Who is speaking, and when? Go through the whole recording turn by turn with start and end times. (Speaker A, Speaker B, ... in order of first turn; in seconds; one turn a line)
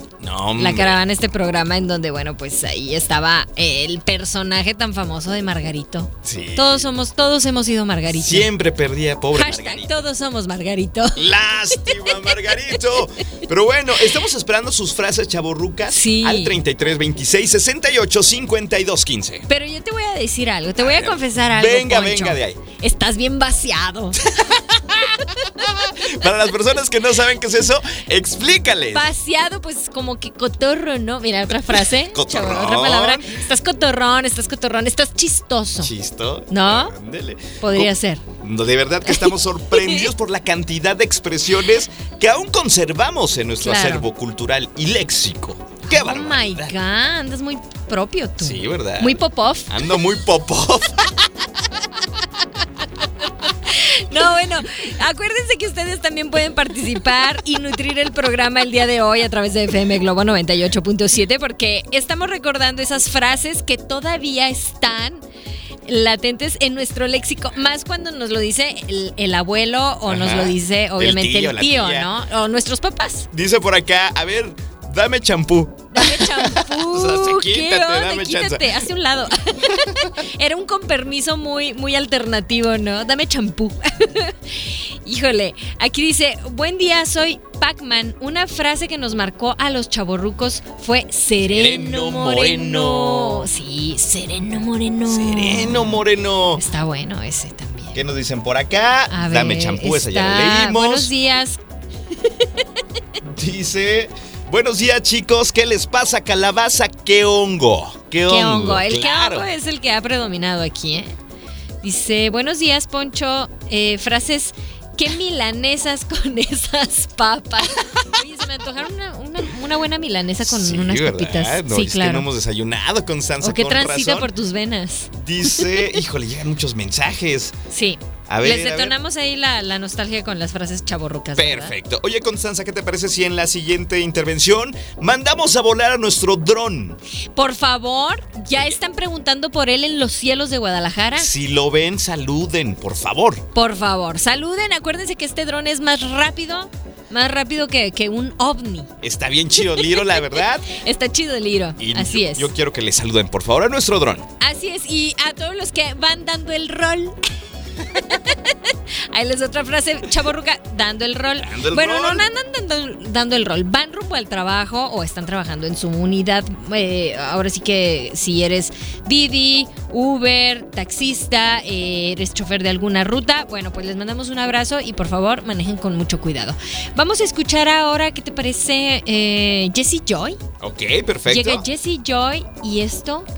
Speaker A: 0.2-1.0
Speaker B: 0.6-8.5
Speaker A: 6.2-6.9
Speaker A: 8.1-10.0
Speaker B: 9.3-12.8
Speaker A: 11.2-19.5
Speaker B: 15.9-16.6
Speaker B: 19.5-24.2
Speaker A: 20.8-22.6
Speaker A: 24.2-29.1
Speaker B: 25.2-25.4
Speaker B: 28.9-35.9
Speaker A: 31.7-33.4
Speaker A: 35.8-37.9
Speaker B: 36.5-37.0
Speaker B: 37.6-38.2
Speaker A: 38.4-46.8
Speaker B: 39.1-40.1
Speaker B: 43.6-44.1
Speaker B: 45.9-49.8
Speaker A: 48.4-51.1
Speaker B: 53.4-65.2
Speaker B: 65.9-73.3
Speaker A: 70.1-72.1
Speaker A: 73.3-78.9
Speaker B: 75.9-96.0
Speaker A: 79.7-80.1
Speaker A: 91.5-93.5
Speaker A: 95.1-96.6
Speaker B: 96.6-98.0
Speaker A: 98.0-101.1
Speaker B: 99.1-101.6
Speaker B: 102.2-102.7
Speaker A: 103.2-109.5
Speaker B: 108.3-111.2
Speaker B: 111.8-122.3
Speaker A: 120.4-124.3
Speaker B: 123.4-126.0
Speaker A: 125.1-127.5
Speaker B: 127.7-131.7
Speaker A: 128.3-128.9
Speaker A: 131.4-137.0
Speaker B: 137.3-141.3
Speaker A: 141.2-143.4
Speaker B: 143.5-148.9
Speaker A: 149.0-150.7
Speaker B: 149.6-152.5
Speaker A: 151.8-154.3
Speaker B: 154.4-157.2
Speaker B: 157.9-180.4
Speaker A: 161.4-162.2
Speaker A: 180.6-181.7
Speaker B: 181.3-183.3